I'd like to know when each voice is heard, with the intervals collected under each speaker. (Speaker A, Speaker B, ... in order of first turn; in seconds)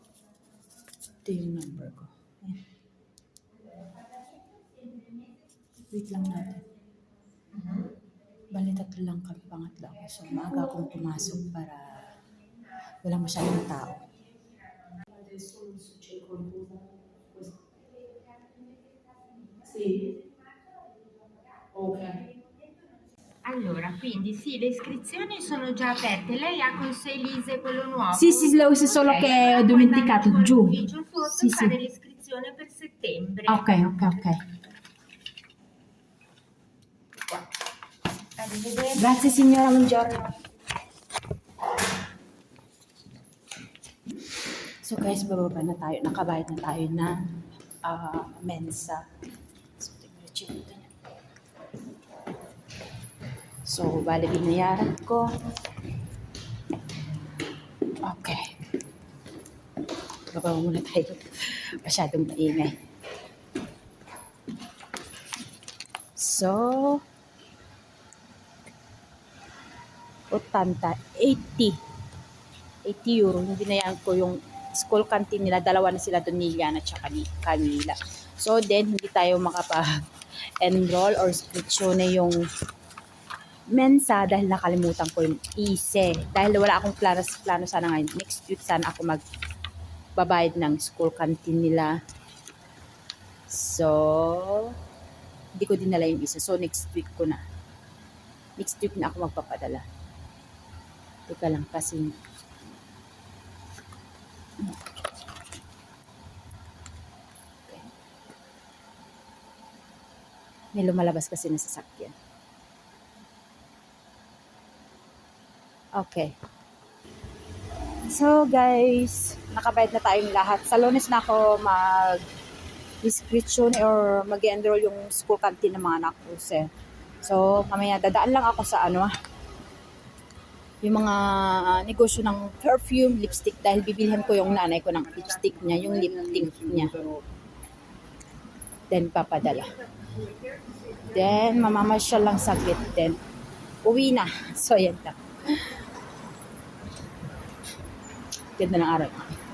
Speaker A: 1.2-2.6, 5.9-6.6, 8.5-12.1, 13.0-14.0, 28.1-31.8, 33.5-34.4, 38.9-40.3, 44.8-47.1, 47.8-49.0, 49.8-50.9, 53.6-55.3, 58.0-58.5, 60.3-62.8, 66.2-67.0, 70.3-71.8, 72.9-80.0, 80.6-82.4, 83.7-89.2, 90.2-91.9, 93.5-94.8, 95.6-97.4, 98.6-99.8, 101.3-102.1, 110.8-112.1, 116.0-116.3, 118.1-122.2, 123.0-126.6, 127.2-129.1, 130.8-137.1, 138.9-139.7, 141.0-143.2, 143.8-145.8, 148.6-149.4
Speaker B: 15.1-17.6, 19.6-20.1, 21.7-22.2
Speaker C: 23.4-34.1, 38.4-39.2, 140.3-140.6